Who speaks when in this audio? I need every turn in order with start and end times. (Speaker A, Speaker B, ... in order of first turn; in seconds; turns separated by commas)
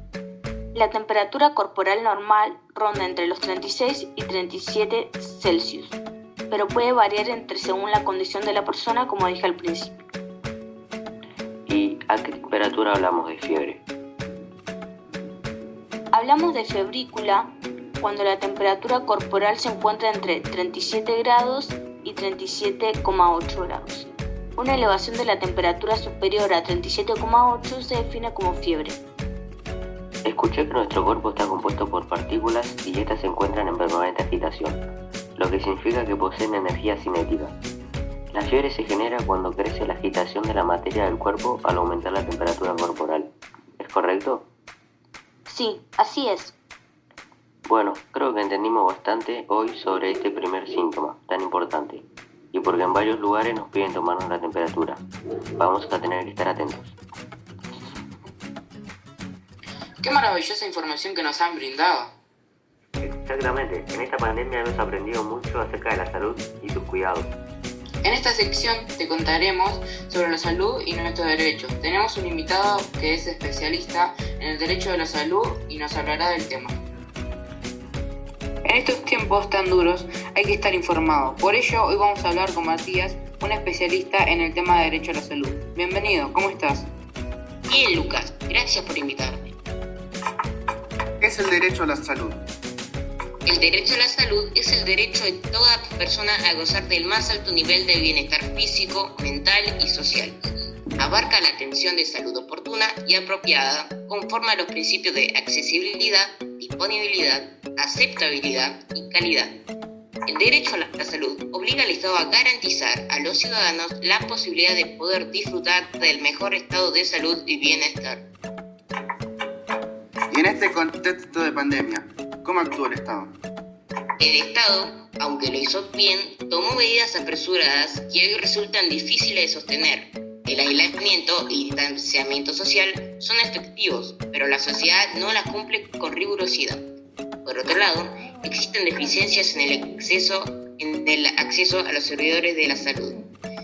Speaker A: 0.7-6.0, Speaker A: 6.5-9.9, Speaker B: 11.7-13.8, Speaker A: 16.1-29.0, Speaker B: 30.2-34.8, Speaker B: 35.4-37.5, Speaker B: 38.3-44.4, Speaker A: 45.5-46.5, Speaker B: 47.6-55.0, Speaker B: 55.6-56.9, Speaker C: 60.0-62.1, Speaker B: 63.0-67.3, Speaker C: 68.0-76.8, Speaker C: 78.6-86.9, Speaker D: 87.7-89.5, Speaker E: 91.2-92.4, Speaker D: 93.5-100.4, Speaker D: 101.0-109.5, Speaker D: 110.3-118.3, Speaker E: 120.3-123.3, Speaker D: 124.2-136.8, Speaker D: 137.4-143.2